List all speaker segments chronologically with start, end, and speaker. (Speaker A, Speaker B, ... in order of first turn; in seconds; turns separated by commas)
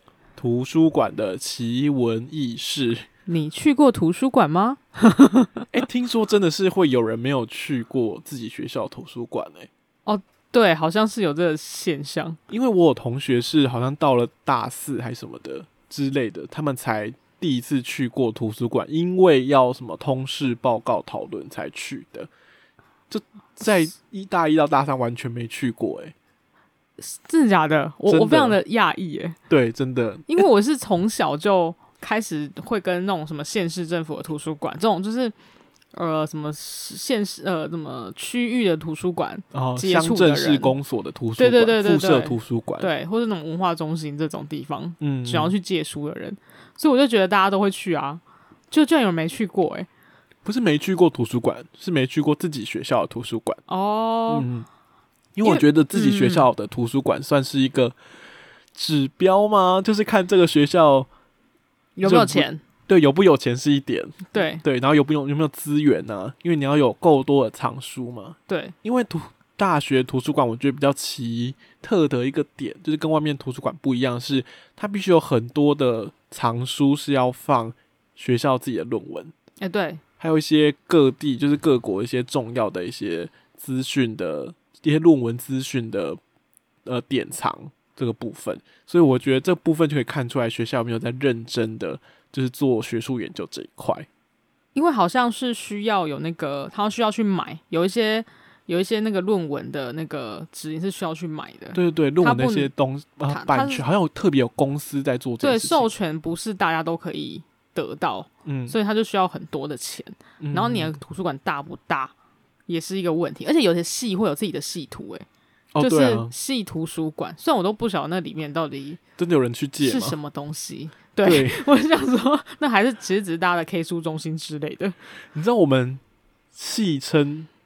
Speaker A: 0.4-3.0, Speaker B: 3.3-5.7, Speaker A: 5.7-9.7, Speaker B: 10.1-12.4, Speaker A: 12.5-22.3, Speaker A: 23.1-26.1, Speaker B: 27.0-29.4, Speaker A: 28.1-28.6, Speaker A: 29.5-30.4, Speaker B: 30.3-35.3, Speaker B: 35.9-40.7, Speaker A: 39.5-42.9, Speaker B: 41.4-49.9, Speaker A: 45.0-45.5, Speaker A: 50.4-53.6, Speaker B: 53.7-54.5, Speaker A: 54.3-54.7, Speaker A: 55.3-58.0, Speaker B: 55.4-56.5, Speaker A: 58.7-61.1, Speaker B: 62.0-62.6, Speaker A: 62.0-79.3, Speaker B: 64.3-64.6, Speaker B: 68.5-68.7, Speaker B: 79.6-80.0, Speaker A: 80.2-86.2, Speaker A: 86.8-94.1, Speaker B: 94.7-102.7, Speaker A: 101.7-105.9, Speaker B: 103.3-103.8, Speaker B: 105.4-112.1, Speaker A: 108.5-108.8, Speaker A: 110.4-110.9, Speaker B: 112.7-115.2, Speaker A: 115.7-116.3, Speaker B: 115.8-119.0, Speaker A: 119.2-120.2, Speaker B: 119.8-125.0, Speaker A: 121.2-121.6, Speaker A: 125.3-126.0, Speaker A: 126.5-127.5